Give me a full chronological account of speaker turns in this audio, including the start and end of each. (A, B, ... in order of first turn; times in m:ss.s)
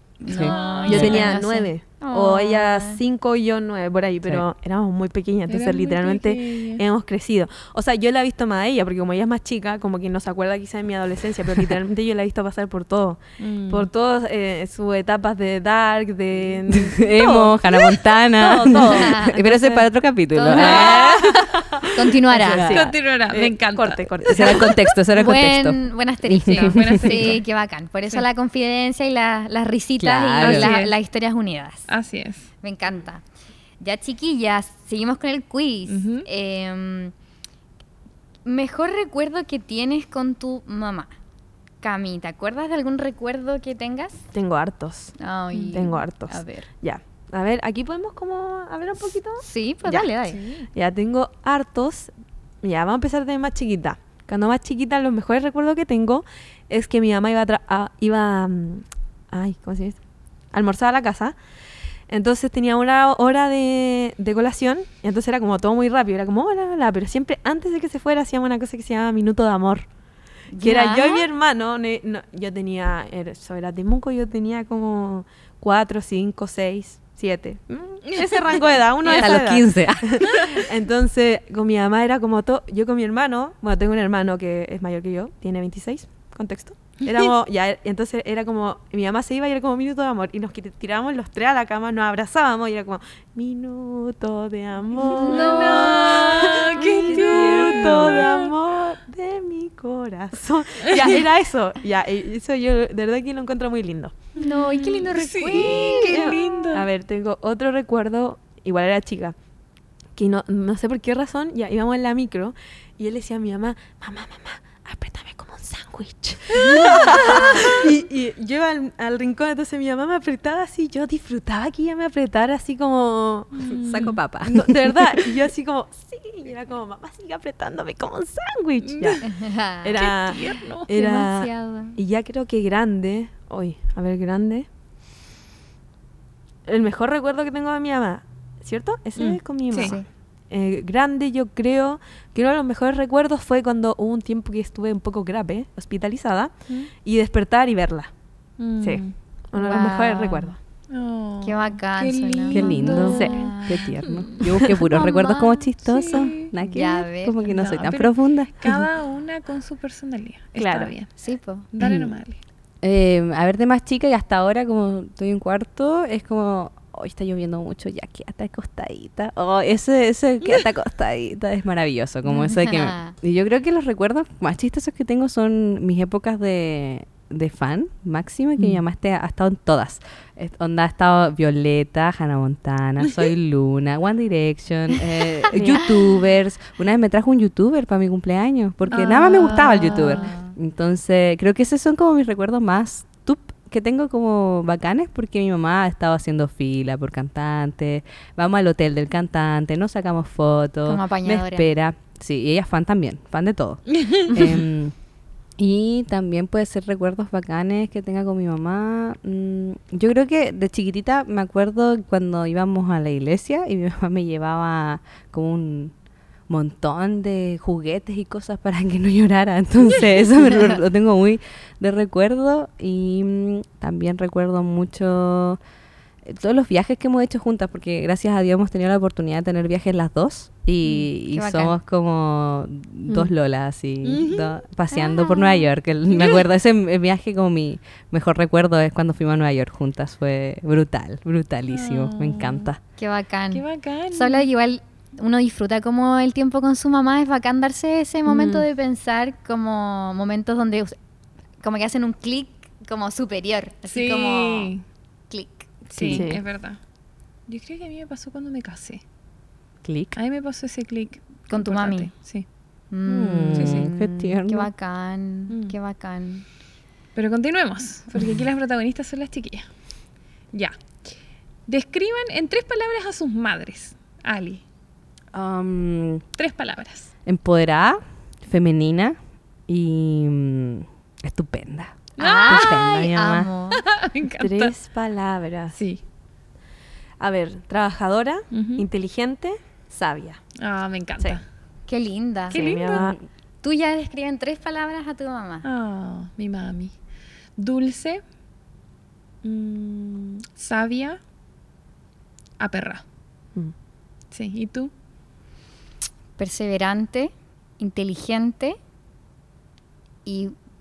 0:00.2-0:03.0 A
0:00.3-0:01.3 B
0:00.3-0:01.3 C
0:00.8-0:19.9 D
0:05.5-0:06.8 C
0:13.4-0:13.9 C
0:16.7-0:21.5 B
0:18.9-0:19.4 A
0:20.3-0:21.2 A
0:20.6-0:24.8 D
0:20.7-0:21.0 C
0:21.9-0:22.8 A
0:22.3-0:22.9 B
0:22.7-0:24.5 C
0:24.2-0:27.3 B
0:25.1-0:31.9 A
0:26.5-0:27.4 C
0:30.0-0:30.7 B
0:30.4-0:31.0 C
0:31.9-0:32.5 C
0:32.6-0:33.2 A
0:33.8-0:37.1 A
0:35.9-0:36.3 C
0:38.4-0:41.1 A
0:41.8-0:44.2 A
0:44.3-0:45.2 D
0:45.2-0:46.7 A
0:45.5-0:45.9 C
0:45.7-0:50.1 D
0:49.4-0:50.4 A
0:50.3-0:50.7 C
0:50.7-0:52.1 D
0:52.6-1:00.0 D
1:00.5-1:01.4 D
1:02.1-1:09.9 D
1:10.5-1:11.3 A
1:10.6-1:44.2 D
1:19.0-1:19.4 C
1:19.1-1:20.5 B
1:35.1-1:37.8 A
1:35.1-1:38.5 C
1:37.1-1:38.3 B
1:44.4-1:46.4 A
1:44.4-1:46.9 C
1:45.5-1:49.4 D
1:50.2-2:03.5 D
1:56.9-1:57.7 A
2:03.5-2:04.2 C
2:03.8-2:05.4 B
2:04.4-2:09.3 D
2:08.8-2:09.3 C
2:09.2-2:10.1 A
2:09.8-2:14.7 D
2:10.0-2:10.9 C
2:10.9-2:12.0 A
2:16.7-2:28.1 D
2:19.2-2:20.0 C
2:19.7-2:20.1 A
2:28.6-2:29.1 C
2:28.8-2:30.6 D
2:29.5-2:30.6 A
2:30.9-2:34.4 C
2:31.4-2:33.9 A
2:32.5-2:38.9 B
2:33.0-2:33.4 D
2:34.4-2:34.8 D
2:34.9-2:35.6 A
2:35.8-2:36.5 C
2:36.6-2:37.6 A
2:37.5-2:41.1 C
2:40.6-2:40.9 D
2:41.2-2:41.7 A
2:41.7-2:42.4 C
2:41.8-2:42.1 B
2:42.8-3:24.9 B
2:52.3-2:53.2 A
3:05.5-3:05.8 D
3:08.9-3:10.3 C
3:09.9-3:10.5 A
3:20.9-3:21.7 A
3:23.9-3:24.3 C
3:24.3-3:24.6 D
3:25.6-3:35.9 B
3:36.5-3:45.6 B
3:46.2-4:02.8 B
3:51.3-3:51.8 A
3:54.0-3:54.6 C
3:54.9-3:55.7 A
3:56.1-3:56.4 C
4:01.7-4:02.7 C
4:03.0-4:11.0 A
4:03.5-4:04.5 C
4:08.3-4:08.7 D
4:11.6-4:14.8 A
4:13.9-4:14.8 C
4:15.3-4:15.8 A
4:15.9-4:16.8 C
4:16.0-4:16.3 B
4:16.1-4:16.4 D
4:17.5-4:19.0 C
4:19.8-4:20.2 B
4:20.2-4:22.5 C
4:21.5-4:22.1 A
4:22.9-4:26.4 A
4:23.1-4:24.7 B
4:23.6-4:23.9 C
4:25.5-4:25.8 C
4:27.2-4:29.7 C
4:31.7-4:34.6 C
4:35.3-4:36.2 B
4:36.4-4:37.1 C
4:37.3-4:39.2 B
4:39.7-4:43.5 B
4:42.2-4:43.9 A
4:42.2-4:42.9 C
4:43.8-4:44.7 C
4:44.4-4:45.8 D
4:45.8-4:46.0 C
4:47.2-4:50.4 D
4:48.5-4:48.9 C
4:50.6-4:51.4 C
4:51.9-4:53.0 A
4:52.5-4:53.1 C
4:52.5-4:53.2 D
4:53.6-4:55.7 A
4:55.6-4:56.9 C
4:57.6-4:58.2 C
4:59.4-5:01.2 C
5:02.6-5:03.0 C
5:04.3-5:04.9 C
5:06.4-5:08.8 A
5:10.2-5:10.6 A